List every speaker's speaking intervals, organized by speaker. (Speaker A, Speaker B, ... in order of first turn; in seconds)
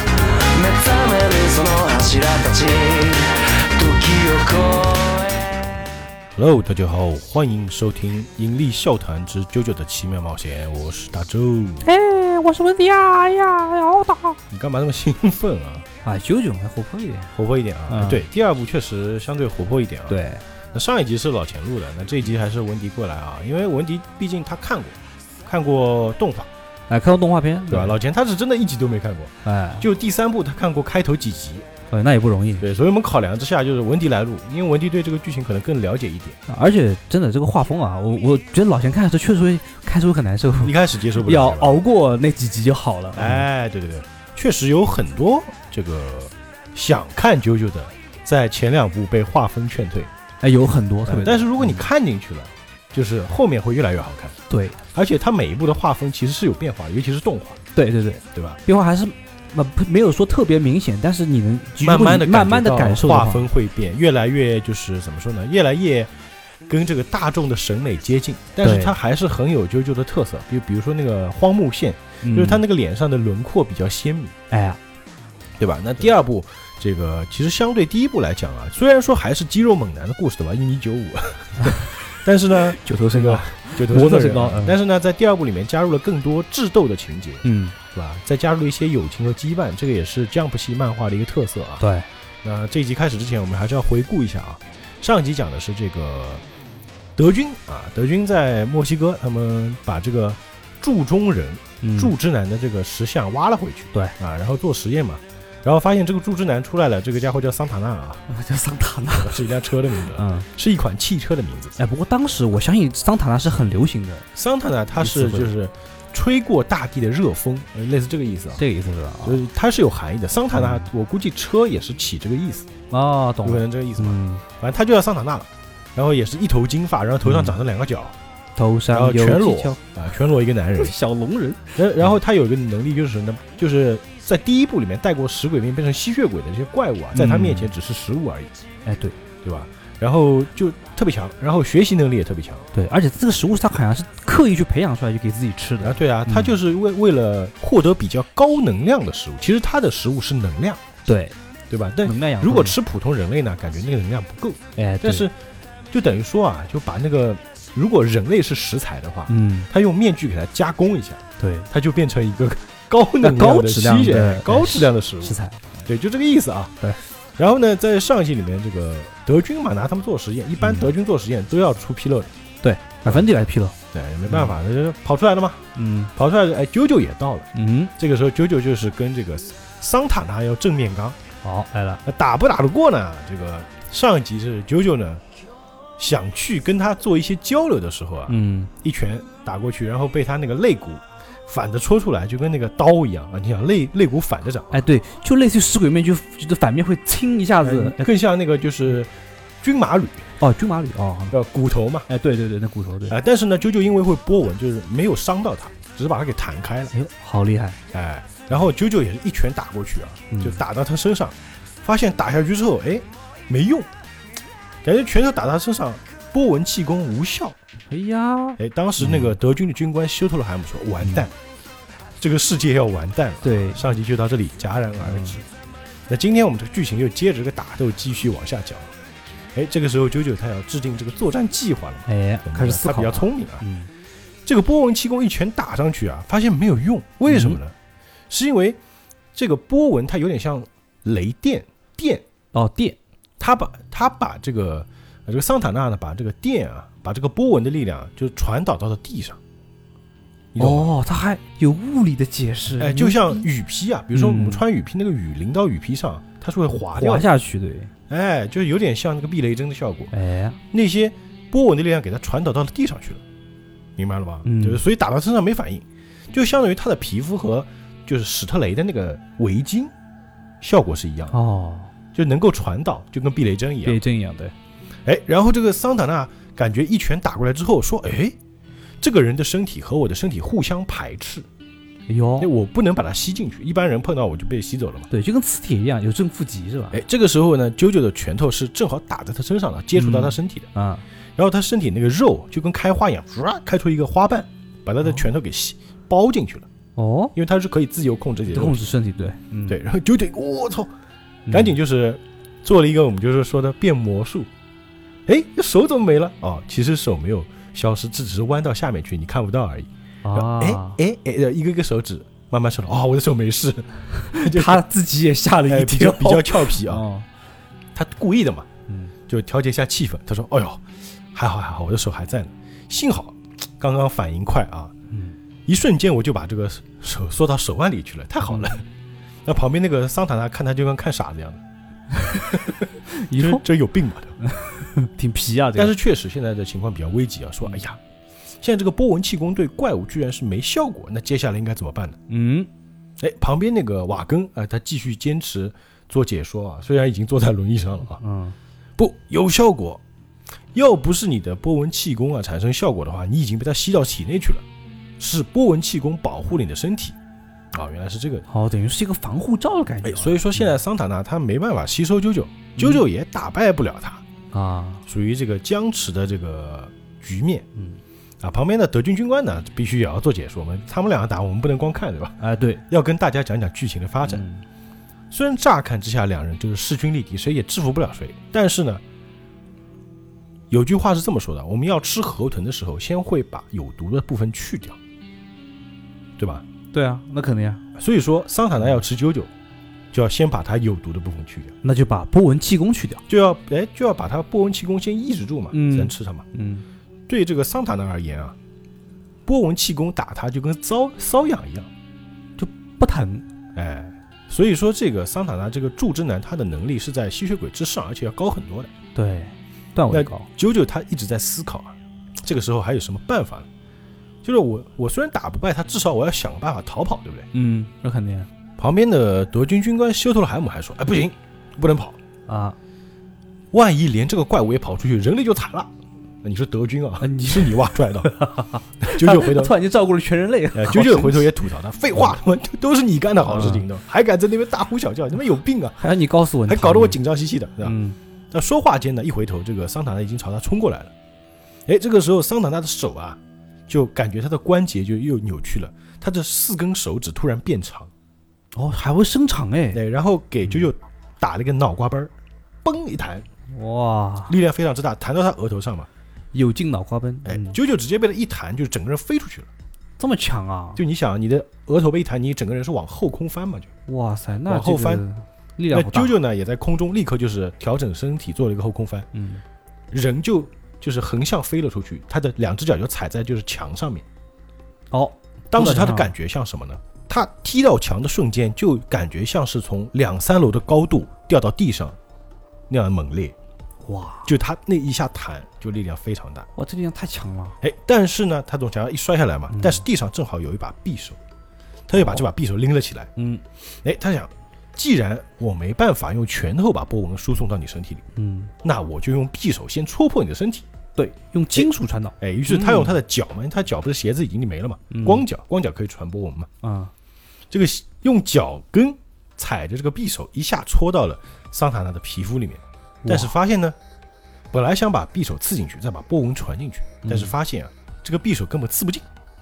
Speaker A: 0.4-5.8
Speaker B: 6.3-11.9, 14.5-15.9, 17.3-20.2, 20.7-26.5, 27.7-31.7, 32.6-36.4, 40.6-41.8, 43.1-50.1, 51.1-54.4, 54.9-57.6, 58.3-58.6, 61.8-66.1, 66.7-74.3, 75.6-91.8, 92.4-96.4, 97.2-108.3, 109.2-111.8, 114.3-118.6, 119.2-122.7, 123.4-128.2, 128.9-130.9, 131.8-138.5, 139.4-142.7, 145.8-150.8, 151.7-155.3, 155.9-166.8, 167.4-172.3, 173.9-175.6, 176.2-181.2, 182.1-185.2, 186.0-194.8, 197.6-200.3, 201.3-202.1, 203.1-206.9, 207.9-213.9, 214.8-217.6, 218.6-221.3, 222.2-225.4, 226.1-228.9, 229.6-233.7, 234.5-237.8, 238.3-238.8, 239.3-242.2, 243.4-249.4, 250.5-250.9, 252.8-257.3, 258.1-260.1, 260.7-263.2, 264.0-269.9, 270.6-271.4, 272.1-274.0, 275.1-278.4, 279.0-281.5, 282.4-285.1, 286.9-290.7, 291.4-296.7, 297.3-298.9, 299.7-300.9, 301.5-304.5, 305.3-314.8, 315.7-317.1, 318.0-318.7, 319.3-324.9, 325.7-328.9, 329.4-331.6, 333.3-334.4, 335.8-338.0, 338.6-342.2, 343.2-348.2, 349.0-350.0, 350.7-354.6, 355.2-357.2, 357.7-358.4, 360.0-364.2, 365.1-367.7, 368.4-372.4, 372.9-374.4, 375.3-379.0, 380.7-385.0, 386.4-386.6, 388.0-389.5, 390.1-391.8, 393.3-396.4, 397.3-398.6, 399.5-401.9, 403.8-408.9, 410.1-413.7, 414.4-417.5, 418.8-422.2, 423.7-425.9, 426.4-428.4, 429.0-429.7, 430.7-436.0, 436.7-438.0, 438.5-441.1, 441.9-448.1, 449.9-452.3, 452.9-453.5, 454.5-456.1, 457.4-459.7, 461.0-463.9, 464.7-465.2, 465.9-469.3, 470.1-474.3, 475.7-482.2, 482.9-483.6, 484.4-486.7, 487.8-491.4, 492.1-493.3, 494.0-498.2, 498.8-500.9, 501.7-506.7, 507.7-514.0, 514.7-519.3
Speaker C: 11.8-14.4, 16.0-17.3, 17.9-18.3, 20.1-20.4, 26.9-28.0, 29.4-29.9, 31.9-32.7, 36.5-43.5, 50.4-51.9, 54.5-54.8, 57.8-63.5, 68.6-69.0, 72.2-72.6, 74.5-74.8, 82.7-84.8, 87.4-87.8, 91.8-92.1, 101.8-102.1, 108.3-110.5, 111.8-114.3, 115.0-115.5, 118.6-119.5, 120.5-120.9, 122.9-124.4, 127.2-127.6, 128.6-129.8, 130.8-132.2, 137.2-137.7, 138.8-139.2, 142.7-146.6, 151.1-151.4, 152.0-152.8, 154.8-155.3, 159.3-159.7, 161.4-161.7, 163.2-165.6, 170.6-170.9, 172.6-173.8, 174.3-174.6, 175.8-176.1, 177.5-177.9, 181.4-182.0, 188.3-188.7, 194.7-198.1, 200.4-201.3, 202.1-203.2, 206.9-207.8, 210.3-210.6, 217.9-219.4, 223.4-223.8, 225.0-225.4, 232.1-233.9, 237.3-237.6, 242.5-243.0, 250.6-253.5, 254.1-254.6, 256.9-257.9, 260.1-260.6, 264.4-264.8, 271.3-271.9, 273.8-274.5, 282.1-282.5, 285.1-287.0, 289.9-291.0, 297.0-297.3, 298.5-299.8, 301.5-301.8, 310.2-311.0, 314.3-317.3, 318.9-319.1, 325.1-325.4, 332.1-333.6, 334.4-336.0, 342.3-342.7, 348.2-348.6, 358.5-360.7, 362.8-363.0, 364.5-365.1, 367.8-368.0, 372.4-372.8, 374.2-374.6, 386.9-387.8, 388.8-389.0, 391.8-393.2, 395.7-396.9, 402.6-403.4, 409.1-410.5, 417.5-418.5, 422.5-422.8, 427.2-431.6, 433.4-433.9, 436.0-437.2, 437.8-438.2, 448.7-450.0, 450.6-450.9, 453.7-454.6, 456.5-457.8, 460.2-461.0, 464.1-466.4, 469.3-469.6, 475.1-476.4, 484.0-484.5, 486.8-487.8, 489.7-490.0, 492.1-492.4, 493.4-493.6, 498.3-498.7, 501.2-503.2, 505.1-505.5, 506.8-507.1, 513.2-513.6, 517.2-517.5